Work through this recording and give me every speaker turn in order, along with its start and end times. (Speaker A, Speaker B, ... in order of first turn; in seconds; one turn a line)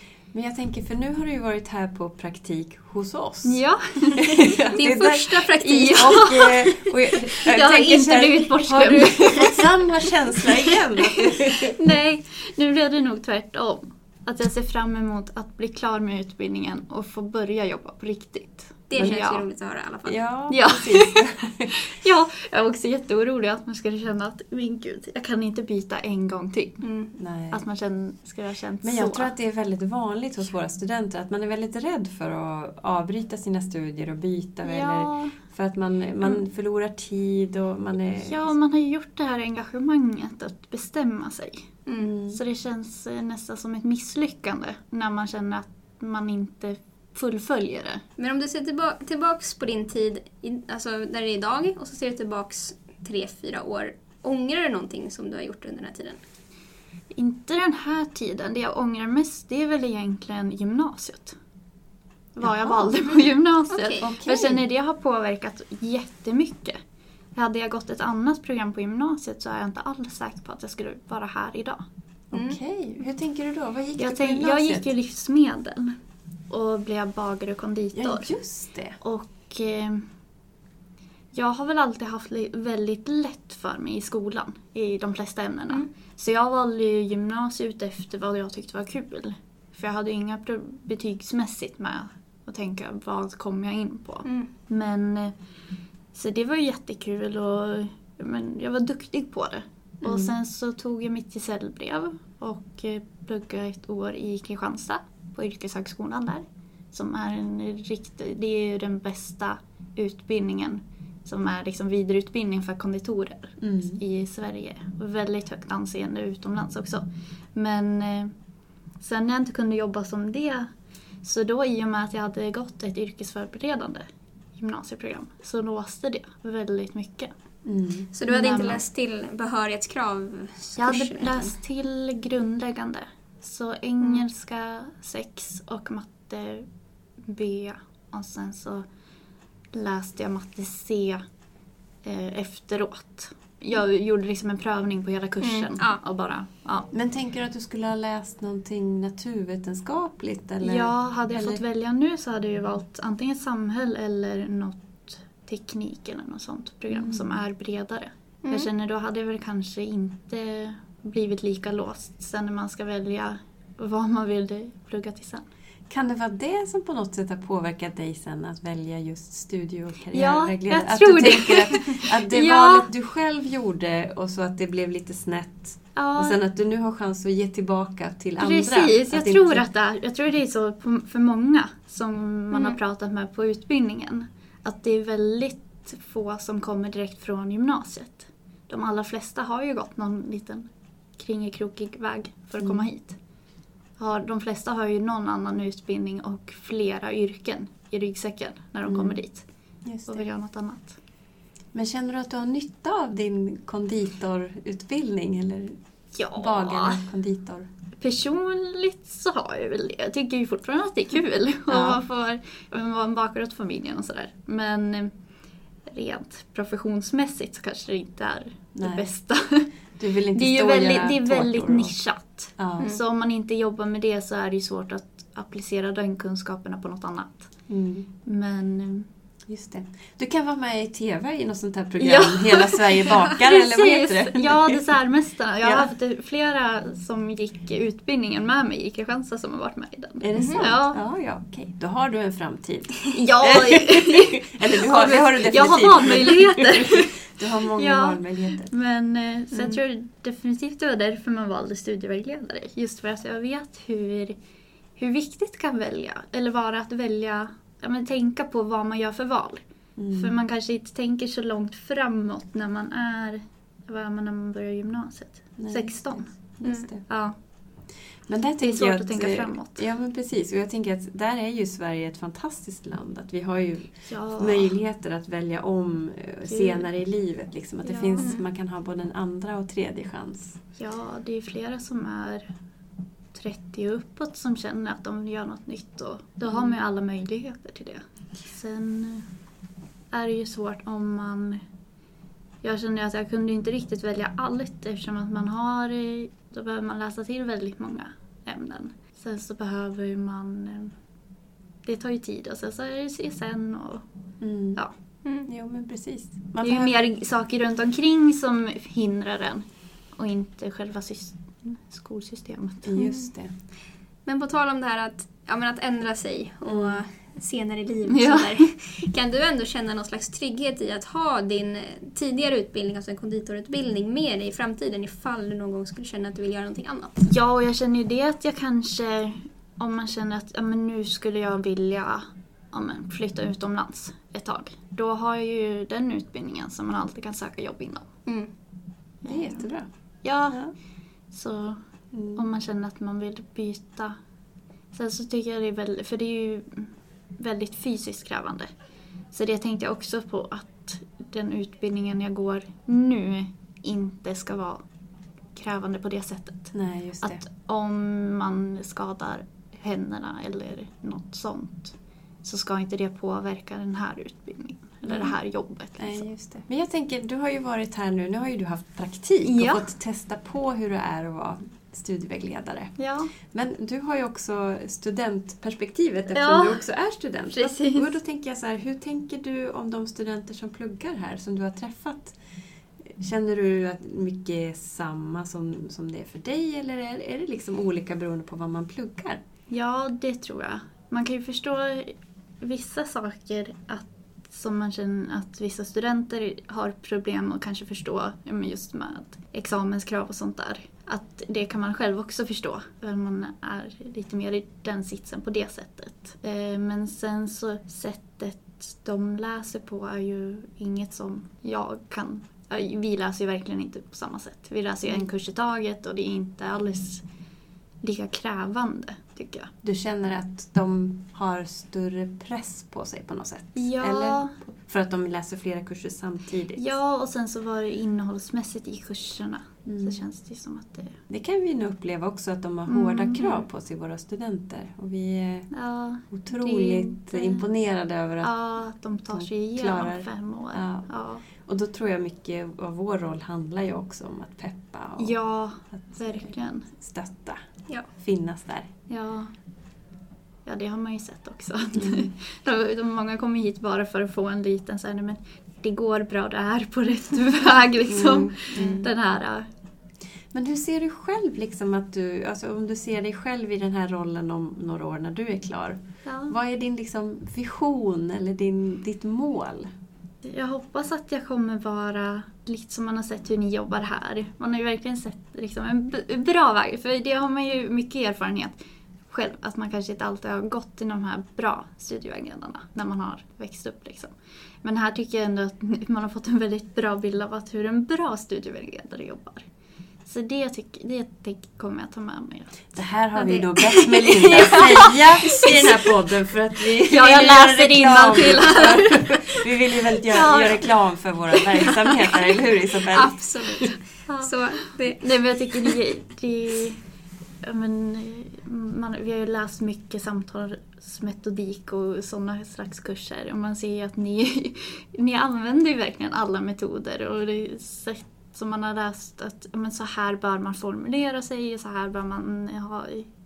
Speaker A: 0.3-3.6
Speaker B: 3.4-5.0
Speaker A: 4.2-11.8
Speaker C: 4.7-6.4
Speaker B: 5.6-6.7
Speaker B: 7.3-9.7
Speaker B: 11.4-19.4
Speaker C: 18.9-20.2
Speaker A: 18.9-19.3
Speaker A: 20.0-21.7
Speaker B: 20.5-26.9
Speaker C: 26.8-27.1
Speaker A: 27.2-27.6
Speaker B: 27.5-29.3
Speaker A: 28.8-38.5
Speaker B: 34.6-35.4
Speaker B: 38.2-41.7
Speaker C: 41.9-42.1
Speaker A: 42.0-42.4
Speaker B: 42.3-48.0
Speaker C: 48.2-56.2
Speaker B: 57.1-61.4
Speaker B: 62.4-66.8
Speaker A: 62.4-62.9
Speaker C: 63.7-64.0
Speaker A: 64.0-64.6
Speaker B: 67.3-71.8
Speaker A: 72.3-74.9
Speaker C: 72.3-72.6
Speaker B: 74.0-75.9
Speaker B: 76.5-78.3
Speaker A: 77.9-79.0
Speaker B: 79.0-80.0
Speaker B: 81.3-95.3
Speaker B: 96.1-118.3
Speaker A: 100.0-100.3
Speaker A: 113.6-114.0
Speaker B: 119.0-120.7
Speaker B: 121.2-124.0
Speaker B: 124.5-127.3
Speaker A: 127.7-128.1
Speaker C: 128.1-131.5
Speaker B: 128.3-128.8
Speaker B: 130.8-136.7
Speaker C: 134.0-134.2
Speaker B: 137.2-138.8
Speaker B: 139.7-141.2
Speaker B: 142.0-146.9
Speaker C: 145.4-146.0
Speaker A: 146.9-151.6
Speaker B: 150.6-165.4
Speaker A: 156.9-157.3
Speaker C: 158.4-158.7
Speaker A: 165.9-179.6
Speaker B: 170.1-172.9
Speaker B: 175.9-176.4
Speaker B: 178.4-193.2
Speaker C: 182.5-182.8
Speaker B: 194.0-199.4
Speaker A: 198.8-199.2
Speaker A: 199.8-200.2
Speaker B: 200.1-200.9
Speaker A: 201.7-205.8
Speaker B: 206.1-207.1
Speaker A: 206.3-207.7
Speaker B: 208.0-215.1
Speaker A: 211.7-212.0
Speaker B: 215.9-219.7
Speaker A: 218.7-219.1
Speaker A: 220.0-221.9
Speaker B: 220.3-227.5
Speaker A: 222.6-222.9
Speaker A: 227.7-228.1
Speaker B: 228.2-229.1
Speaker A: 229.5-234.8
Speaker B: 232.0-241.0
Speaker A: 235.6-235.9
Speaker A: 240.2-248.7
Speaker C: 240.3-240.7
Speaker B: 243.1-247.2
Speaker B: 247.8-254.3
Speaker A: 249.5-249.8
Speaker B: 255.0-267.4
Speaker A: 260.0-260.3
Speaker A: 265.6-267.1
Speaker C: 266.6-266.9
Speaker A: 268.3-280.6
Speaker B: 268.6-269.9
Speaker B: 274.0-274.8
Speaker B: 276.4-276.9
Speaker B: 277.8-278.3
Speaker B: 280.8-282.5
Speaker B: 283.3-289.2
Speaker A: 286.5-286.8
Speaker B: 290.1-291.6
Speaker B: 292.6-300.9
Speaker B: 301.8-304.0
Speaker A: 304.4-304.8
Speaker A: 305.4-307.0
Speaker B: 306.6-313.1
Speaker A: 312.8-313.5
Speaker C: 313.0-313.3
Speaker C: 314.2-327.3
Speaker A: 316.6-317.0
Speaker B: 318.1-318.7
Speaker B: 327.2-338.1
Speaker C: 338.2-338.5
Speaker B: 339.2-340.6
Speaker A: 339.2-339.9
Speaker B: 341.3-341.8
Speaker A: 342.1-342.4
Speaker B: 342.3-344.1
Speaker B: 344.9-348.7
Speaker B: 349.3-354.8
Speaker B: 355.5-366.3
Speaker A: 356.7-357.4
Speaker A: 365.0-365.3
Speaker A: 366.0-382.4
Speaker B: 369.4-369.8
Speaker B: 373.0-373.3
Speaker B: 376.3-376.9
Speaker B: 377.5-378.1
Speaker A: 383.1-389.4
Speaker B: 389.7-417.2
Speaker B: 418.0-419.7
Speaker A: 419.8-426.9
Speaker B: 423.7-424.5
Speaker B: 426.8-431.1
Speaker A: 429.9-430.2
Speaker A: 431.3-435.7
Speaker B: 432.9-433.6
Speaker B: 435.7-437.6
Speaker A: 436.3-438.5
Speaker B: 438.4-441.4
Speaker A: 439.3-448.9
Speaker B: 445.2-446.9
Speaker B: 449.1-449.5
Speaker B: 450.6-459.7
Speaker A: 451.9-452.3
Speaker A: 458.1-459.1
Speaker C: 458.7-459.1
Speaker A: 460.5-469.9
Speaker B: 466.2-466.5
Speaker B: 470.4-478.8
Speaker B: 479.3-489.6
Speaker B: 490.2-492.9
Speaker A: 492.9-503.9
Speaker C: 493.4-494.6
Speaker B: 494.2-495.9
Speaker B: 497.1-499.4
Speaker C: 498.6-498.9
Speaker B: 500.3-502.4
Speaker C: 503.1-505.9
Speaker B: 504.3-507.0
Speaker B: 507.6-523.3